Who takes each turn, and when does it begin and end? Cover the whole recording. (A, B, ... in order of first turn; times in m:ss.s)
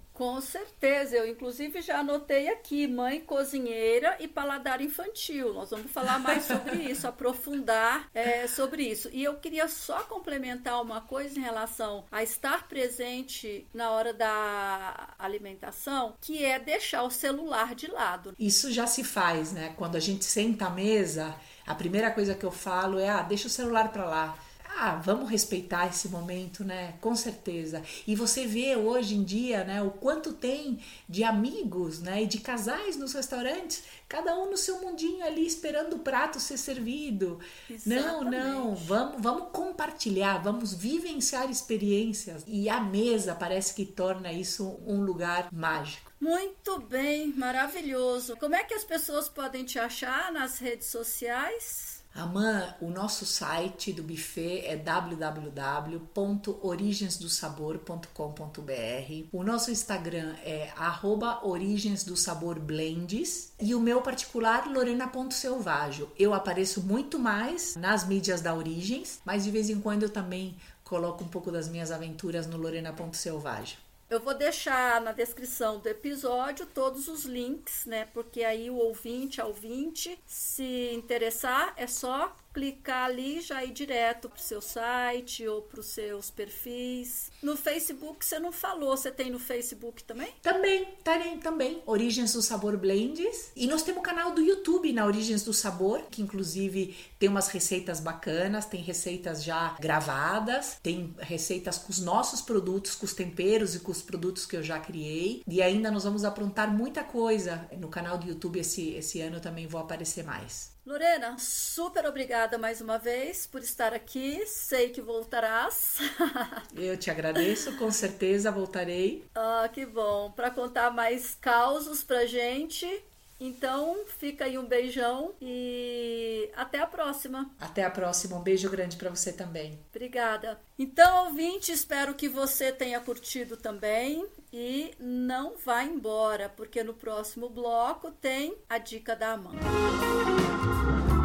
0:00.1-0:18.4 A
0:18.4-0:46.1 B
0:37.7-0:39.0 A
0:46.2-0:52.0 A
0:52.1-1:13.8 B
1:14.1-1:30.4 A
1:30.4-1:50.7 B
1:50.8-1:56.7 A
1:56.7-1:59.3 B
1:59.4-2:07.5 A
2:07.6-2:09.8 B
2:09.9-2:19.7 A